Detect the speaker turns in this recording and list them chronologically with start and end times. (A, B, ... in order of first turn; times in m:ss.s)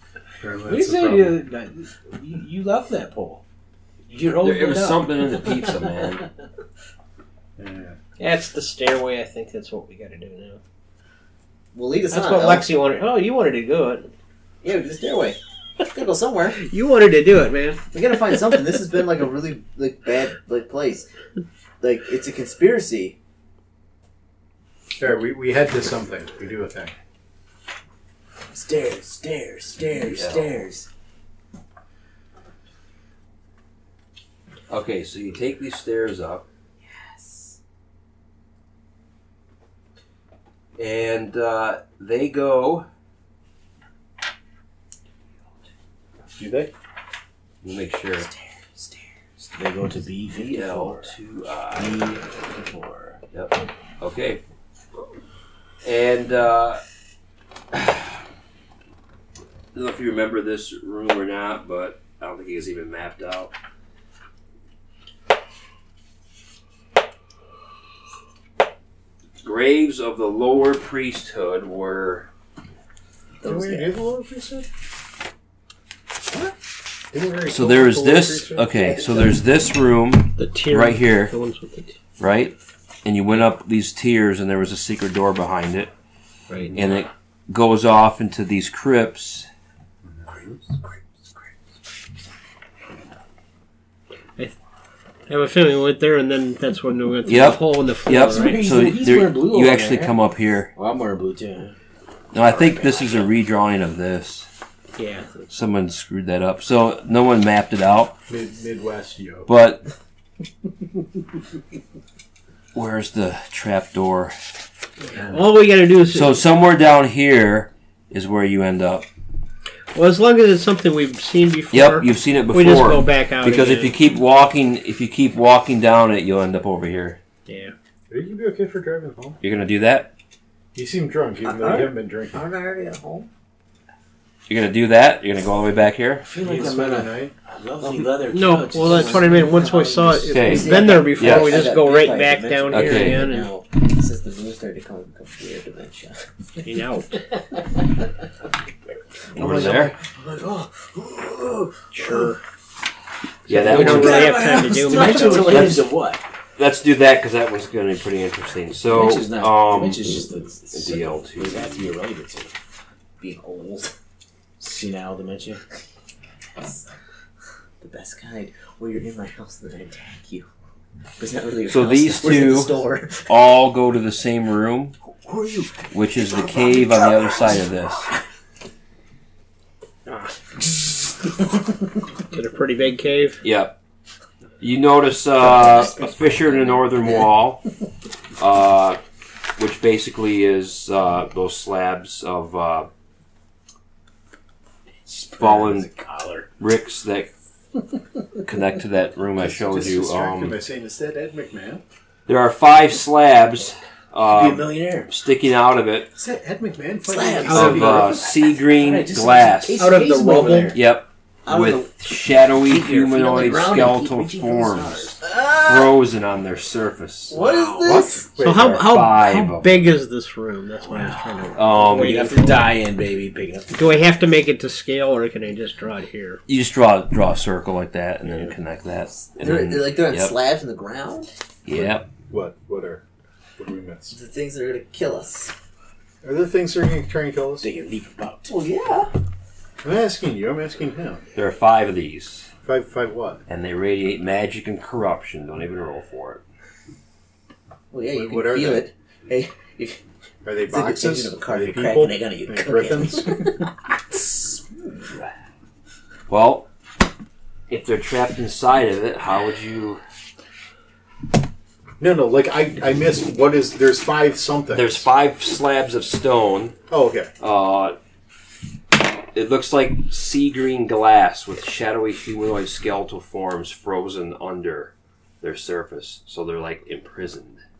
0:00.4-0:01.4 A
0:00.6-0:03.4 B
0:04.1-0:06.1 B
0:04.4-0:06.2 C
0:07.6-0:08.0 A
0:08.2-0:10.6 D
0:11.7-0:12.7 E
0:12.1-0:14.1 D
0:14.6-0:16.6 E
0:16.5-0:17.8 D
0:17.9-0:21.1 E
0:21.8-0:23.2 E
0:25.0-0:26.9 A
0:28.5-0:30.9 E
0:30.0-0:30.6 C
0:34.7-0:36.4 C
0:36.8-0:37.6 E
0:40.8-0:42.8 C
0:46.4-0:46.7 A
0:47.6-0:48.3 C
0:48.2-0:49.1 E
0:49.4-0:51.2 B
0:50.3-0:52.1 C
0:51.7-0:53.2 B
0:53.3-0:54.4 C
0:55.8-0:56.8 C
0:57.7-0:58.1 C
0:59.7-1:03.5 C
1:09.4-1:12.3 C
1:13.4-1:13.9 E
1:13.4-1:14.7 A
1:17.1-1:18.7 A
1:17.4-1:21.3 C
1:18.8-1:19.3 E
1:20.4-1:22.0 D
1:22.2-1:25.9 C
1:26.5-1:26.8 D
1:26.7-1:29.5 C
1:30.0-1:30.6 A
1:35.3-1:38.6 D
1:37.2-1:40.7 C
1:38.2-1:40.2 B
1:40.7-1:41.8 B
1:42.3-1:44.5 C
1:45.0-1:45.4 D
1:45.5-1:48.1 C
1:48.3-1:49.5 A
1:49.5-1:49.8 C
1:52.7-1:54.3 C
1:55.1-1:56.4 D
1:56.1-1:59.0 C
1:59.9-2:04.0 D
2:01.7-2:07.2 C
2:07.5-2:07.7 D
2:08.1-2:09.4 A
2:09.4-2:10.1 C
2:10.7-2:12.4 A
2:11.4-2:13.3 E
2:14.5-2:16.2 C
2:16.2-2:19.5 B
2:16.4-2:17.3 A
2:17.8-2:18.1 E
2:18.3-2:23.5 D
2:18.7-2:26.2 E
2:20.2-2:21.7 C
2:22.7-2:23.3 C
2:26.6-2:27.3 D
2:29.3-2:32.3 E
2:29.3-2:29.9 C
2:32.0-2:32.4 D
2:33.5-2:34.4 C
2:33.5-2:36.2 B
2:33.6-2:35.8 D
2:33.8-2:35.8 E
2:35.5-2:35.8 C
2:36.6-2:41.9 C
2:38.9-2:42.5 B
2:43.2-2:43.9 E
2:44.6-2:45.6 B
2:46.6-2:46.8 E
2:47.8-2:50.5 E
2:51.2-2:53.3 E
2:51.7-2:55.0 C
2:55.2-2:55.8 E
2:55.9-2:58.1 C
2:56.4-2:57.4 E
3:02.3-3:03.4 D
3:03.4-3:03.8 C
3:04.6-3:07.6 C
3:05.4-3:07.2 E
3:08.4-3:09.0 C
3:09.6-3:12.9 C
3:15.0-3:16.5 B
3:15.4-3:15.9 C
3:16.6-3:17.3 C
3:18.4-3:20.6 C
3:19.4-3:21.8 A
3:22.3-3:26.1 C
3:24.2-3:25.1 B
3:26.1-3:28.2 A
3:27.1-3:30.8 B
3:27.4-3:29.8 C
3:29.8-3:30.8 D
3:30.7-3:37.4 C
3:31.4-3:31.9 E
3:32.6-3:35.2 B
3:35.2-3:36.0 E
3:37.3-3:38.3 E
3:37.3-3:38.2 B
3:37.9-3:38.9 A
3:38.4-3:42.7 D
3:38.4-3:39.9 C
3:39.1-3:39.5 B
3:40.8-3:44.0 B
3:41.6-3:42.2 C
3:43.7-3:46.4 D
3:46.5-3:50.4 C
3:49.1-3:51.3 E
3:51.6-3:52.1 C
3:51.7-3:53.0 A
3:53.6-3:54.1 A
3:54.1-3:55.5 E
3:56.2-3:57.7 A
3:57.6-3:58.5 B
3:58.4-3:59.1 E
3:59.8-4:01.2 A
4:01.3-4:02.5 C
4:02.6-4:03.4 A
4:03.5-4:06.4 C
4:07.9-4:10.0 E
4:08.0-4:08.9 A
4:10.4-4:13.6 A
4:10.7-4:15.1 E
4:16.3-4:16.7 C
4:17.7-4:20.0 C
4:22.0-4:25.1 A
4:24.7-4:26.8 C
4:26.9-4:27.3 A
4:27.4-4:28.0 C
4:29.3-4:37.6 C